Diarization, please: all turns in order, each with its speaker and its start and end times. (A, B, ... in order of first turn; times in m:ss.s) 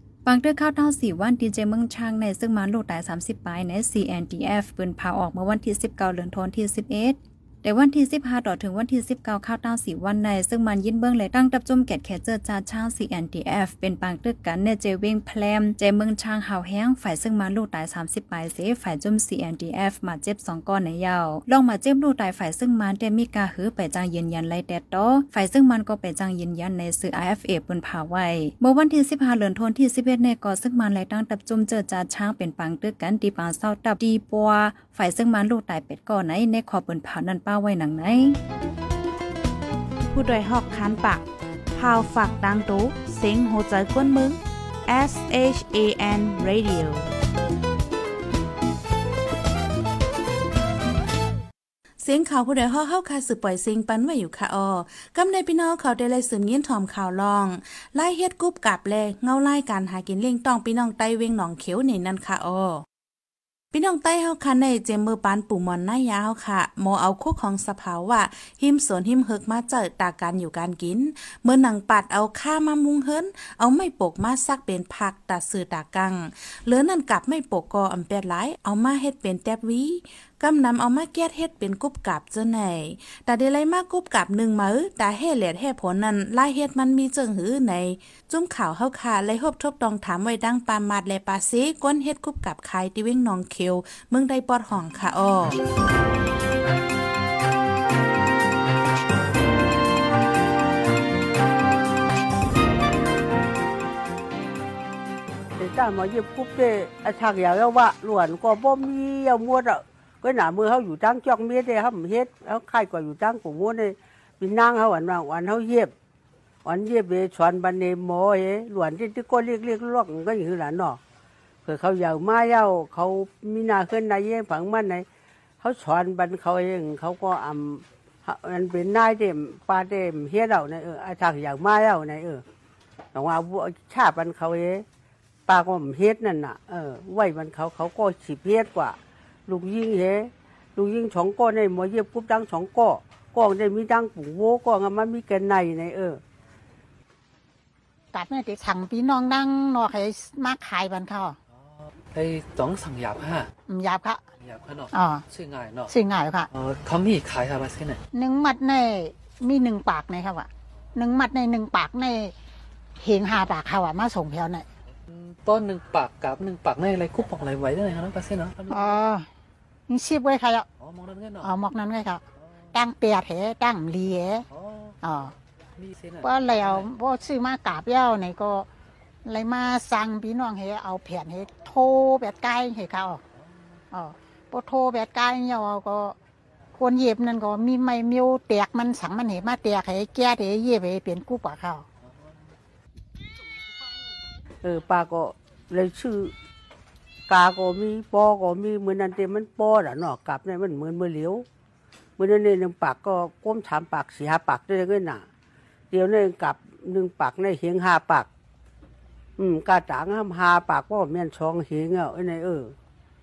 0:00.2-0:38.4 A
0:40.1-0:47.1 B
0:52.0-1:02.8 B
1:03.7-1:35.6 B
1:45.6-1:55.9 C
1:56.6-2:01.0 C
2:01.6-2:05.0 C
2:05.6-2:12.4 C
2:13.1-2:14.8 C
2:15.5-2:26.2 C
2:28.1-2:31.4 D
2:31.6-2:33.5 E
2:33.7-2:34.2 D
2:34.4-2:35.9 E
2:34.9-2:35.2 D
2:35.9-2:36.5 D
2:36.5-2:38.0 E
2:38.1-2:42.3 D
2:43.0-2:44.6 D
2:45.1-2:49.0 E
2:48.7-2:49.3 D
2:49.9-2:50.6 D
2:50.8-2:51.5 E
2:51.4-2:52.2 D
2:52.7-2:54.4 D
2:54.5-2:55.0 E
2:55.0-2:55.3 D
2:55.8-2:56.9 E
2:56.2-2:58.7 D
2:59.2-3:03.2 D
3:03.9-3:06.2 D
3:06.8-3:11.8 D
3:14.6-3:16.3 C
3:17.3-3:21.4 C
3:22.2-3:25.2 C
3:25.9-3:28.3 C
3:29.4-3:32.7 C